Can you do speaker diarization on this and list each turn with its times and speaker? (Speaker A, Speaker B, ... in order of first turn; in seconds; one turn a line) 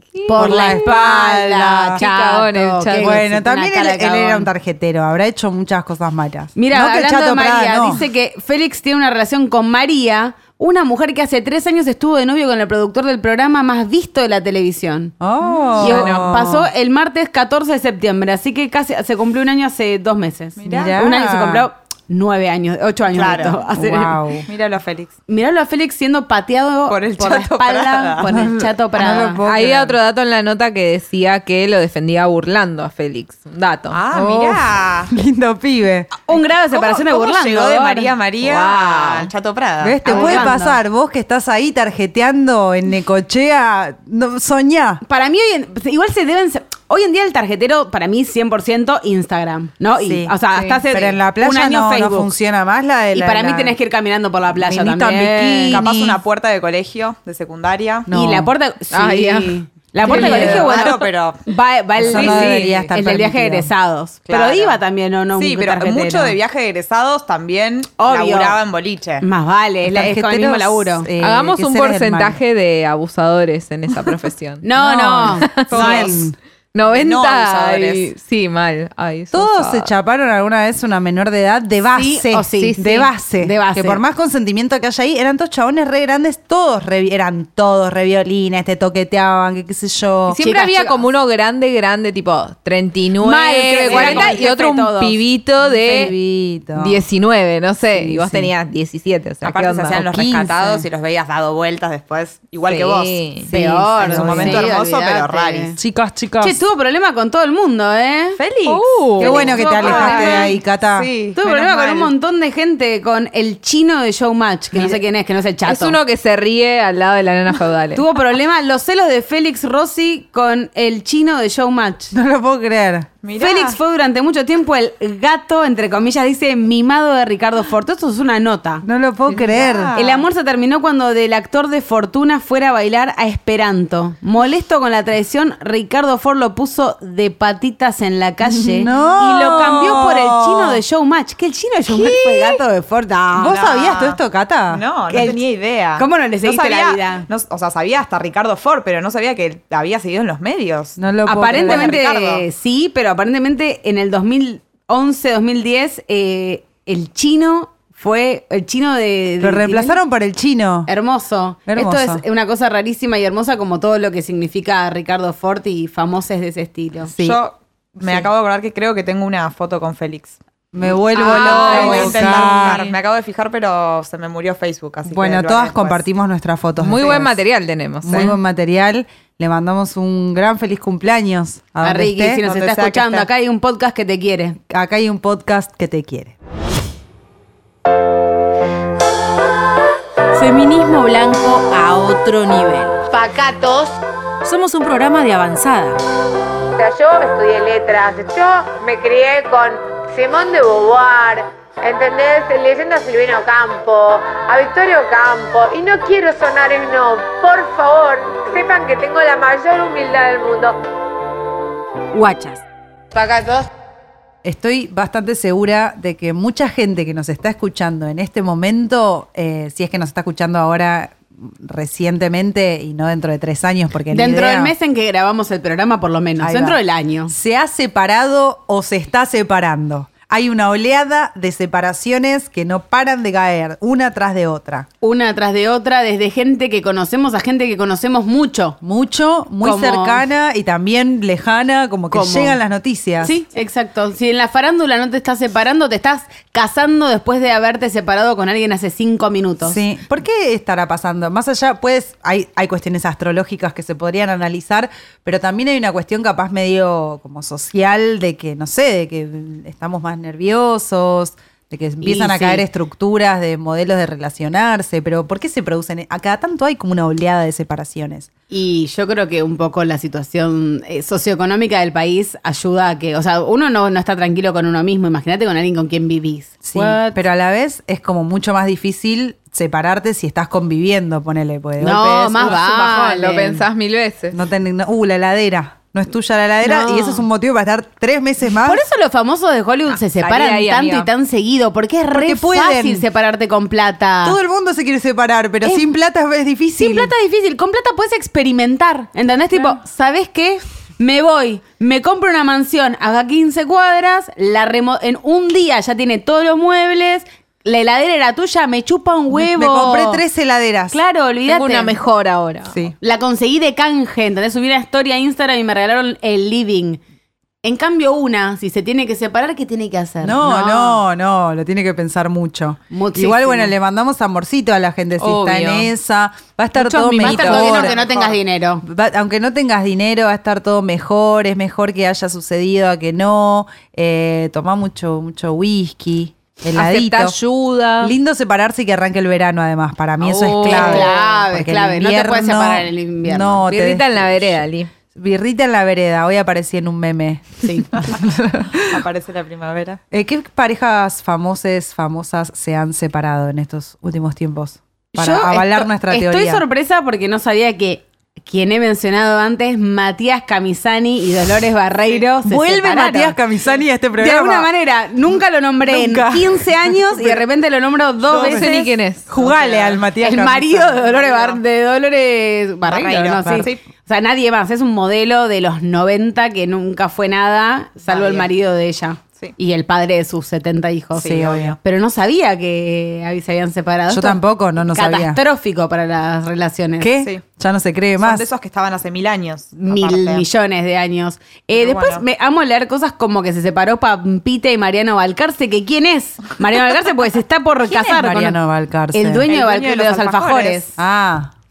Speaker A: 0.2-0.9
Speaker B: 0.2-4.5
Speaker C: 0.3-2.0
Speaker A: 2.0-3.2
Speaker C: 3.0-8.0
Speaker B: 6.5-15.1
Speaker C: 15.2-16.7
Speaker A: 15.8-16.4
Speaker B: 15.8-24.2
Speaker D: 20.6-21.0
Speaker C: 20.6-21.7
Speaker D: 23.1-23.6
Speaker C: 23.7-24.5
Speaker D: 24.5-25.1
Speaker B: 25.3-29.4
Speaker D: 26.9-28.3
Speaker C: 28.2-30.0
Speaker A: 29.4-34.0
Speaker D: 33.9-35.1
Speaker C: 34.1-36.1
Speaker B: 36.2-38.1
Speaker D: 36.3-40.5
Speaker A: 38.4-39.3
Speaker C: 39.8-45.0
Speaker B: 40.0-40.8
Speaker B: 45.0-52.3
Speaker C: 50.0-50.3
Speaker A: 50.5-50.8
Speaker C: 50.9-53.8
Speaker B: 53.1-55.8
Speaker C: 54.5-56.2
Speaker D: 55.7-58.1
Speaker C: 58.1-58.5
Speaker B: 58.1-66.3
Speaker A: 58.9-60.7
Speaker C: 60.0-60.7
Speaker D: 60.1-61.4
Speaker C: 62.0-63.7
Speaker A: 62.0-62.9
Speaker D: 64.3-64.8
Speaker D: 65.3-69.2
Speaker B: 68.0-68.6
Speaker B: 69.2-71.1
Speaker C: 69.8-72.4
Speaker A: 71.2-76.0
Speaker B: 74.6-76.3
Speaker C: 74.8-76.3
Speaker D: 75.7-76.2
Speaker A: 76.7-79.9
Speaker D: 76.9-78.1
Speaker C: 79.3-90.4
Speaker B: 81.9-84.0
Speaker A: 82.6-83.1
Speaker B: 90.3-91.0
Speaker A: 90.3-96.1
Speaker B: 93.2-95.2
Speaker D: 93.8-94.3
Speaker C: 95.6-97.0
Speaker A: 96.7-100.0
Speaker C: 97.9-98.5
Speaker D: 99.4-105.8
Speaker C: 99.9-100.8
Speaker A: 102.6-103.5
Speaker C: 103.5-104.7
Speaker B: 103.5-105.8
Speaker C: 105.8-106.6
Speaker B: 106.4-108.4
Speaker D: 108.4-112.1
Speaker A: 108.7-110.3
Speaker B: 109.2-110.5
Speaker C: 109.2-111.1
Speaker B: 111.3-116.0
Speaker A: 115.7-118.0
Speaker B: 117.9-122.1
Speaker C: 122.1-123.1
Speaker D: 123.2-123.8
Speaker B: 123.3-128.8
Speaker C: 128.8-129.9
Speaker D: 129.3-130.3
Speaker B: 129.9-143.6
Speaker C: 138.4-140.8
Speaker C: 141.9-142.6
Speaker C: 143.3-145.2
Speaker D: 143.4-151.0
Speaker B: 145.1-145.4
Speaker B: 145.9-147.3
Speaker C: 151.0-152.0
Speaker B: 151.2-160.0
Speaker D: 151.5-152.4
Speaker C: 159.4-160.9
Speaker B: 160.9-167.1
Speaker C: 161.7-162.2
Speaker C: 167.1-167.4
Speaker D: 167.2-170.4
Speaker C: 170.7-172.8
Speaker D: 171.1-176.0
Speaker A: 171.2-172.9
Speaker C: 175.1-177.4
Speaker A: 176.8-178.4
Speaker C: 178.0-182.4
Speaker B: 181.8-184.6
Speaker D: 182.4-183.3
Speaker C: 184.7-186.3
Speaker E: 190.3-193.0
Speaker F: 193.1-193.9
Speaker E: 194.4-196.0
Speaker F: 196.8-210.8
Speaker B: 212.1-212.6
Speaker F: 213.1-213.7
Speaker C: 214.4-224.7
Speaker B: 224.1-227.3
Speaker C: 226.4-234.9
Speaker B: 235.0-238.8
Speaker C: 238.8-243.3
Speaker B: 239.6-240.2
Speaker B: 242.1-242.6
Speaker B: 243.2-249.8
Speaker C: 249.6-268.3
Speaker B: 262.0-262.6
Speaker B: 268.5-277.2
Speaker C: 276.6-282.6
Speaker B: 281.8-283.6
Speaker A: 282.4-284.4
Speaker C: 284.3-288.8
Speaker B: 286.6-287.2
Speaker B: 288.6-294.4
Speaker A: 290.2-291.1
Speaker C: 292.1-293.0
Speaker C: 294.2-297.1
Speaker B: 296.8-310.2
Speaker C: 309.3-311.0
Speaker B: 310.9-312.0
Speaker A: 311.5-312.8
Speaker C: 312.7-312.9
Speaker B: 313.0-317.0
Speaker B: 317.6-321.0
Speaker C: 320.2-328.0
Speaker B: 322.9-323.7
Speaker A: 325.2-325.9
Speaker B: 326.8-328.8
Speaker A: 327.1-327.9
Speaker D: 327.5-328.4
Speaker C: 328.8-337.4
Speaker A: 336.7-338.1
Speaker C: 338.0-344.6
Speaker A: 340.2-341.2
Speaker B: 340.6-343.6
Speaker A: 343.7-344.9
Speaker C: 345.1-349.0
Speaker B: 347.6-347.9
Speaker D: 348.8-350.0
Speaker C: 350.1-356.6
Speaker B: 355.1-363.4
Speaker C: 362.4-364.7
Speaker B: 364.2-368.7
Speaker C: 365.8-367.4
Speaker C: 368.3-371.0
Speaker A: 368.4-369.3
Speaker D: 369.3-370.0
Speaker B: 370.2-387.1
Speaker D: 371.0-371.6
Speaker D: 372.8-373.8
Speaker C: 373.4-373.7
Speaker D: 378.0-378.5
Speaker C: 381.2-381.8
Speaker D: 381.2-381.8
Speaker C: 384.1-385.4
Speaker C: 387.0-388.5
Speaker D: 388.2-390.4
Speaker B: 389.8-398.6
Speaker D: 391.7-392.2
Speaker C: 397.8-399.4
Speaker B: 399.1-401.0
Speaker D: 399.4-400.8
Speaker C: 401.0-401.5